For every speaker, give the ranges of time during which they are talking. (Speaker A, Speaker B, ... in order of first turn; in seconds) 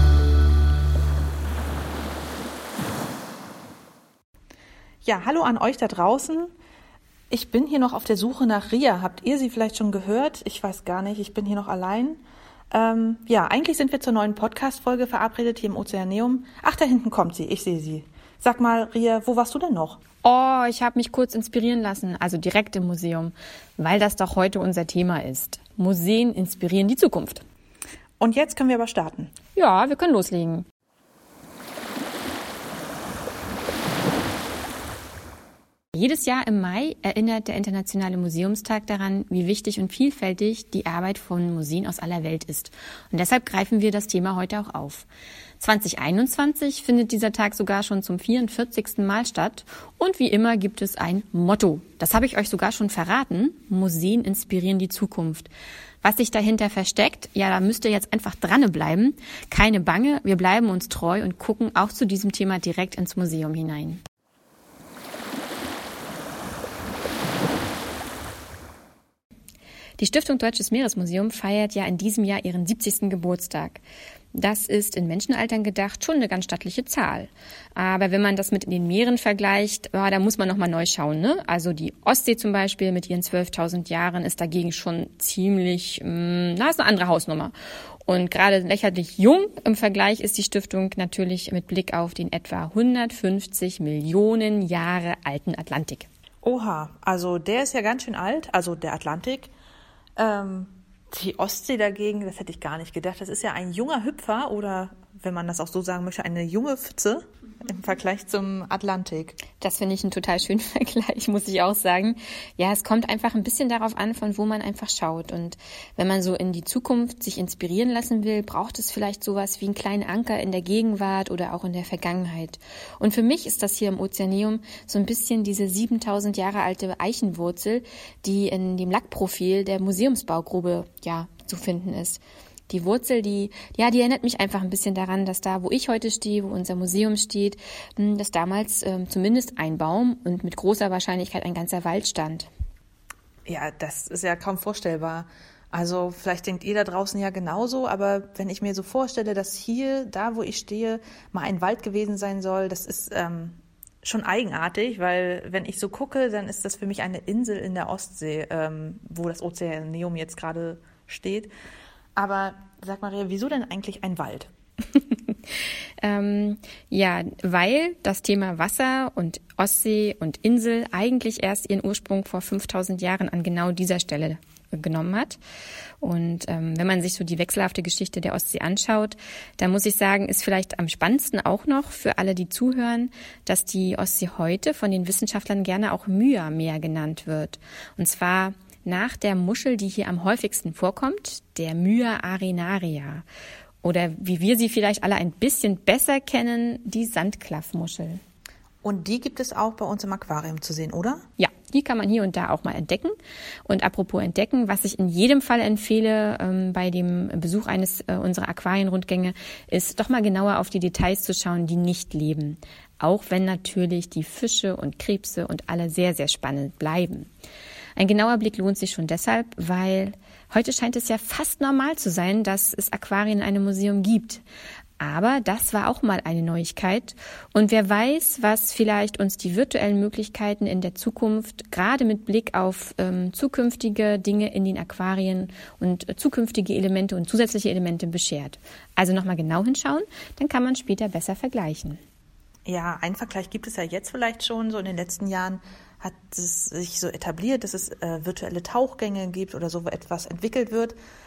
Speaker A: 5.0-6.5, 7.3-12.2, 12.7-20.0, 28.2-29.3, 96.4-99.5, 100.2-109.4, 143.5-161.5, 162.2-164.5, 198.8-201.2, 242.7-251.0
Speaker B: 20.2-27.4, 29.6-30.7, 35.9-45.1, 45.6-55.5, 56.0-64.0, 70.0-73.8, 74.3-87.5, 88.0-96.1, 109.6-142.5, 166.0-175.4, 176.0-193.2, 193.8-198.2, 201.4-203.2, 203.7-217.3, 218.0-224.4, 225.0-242.0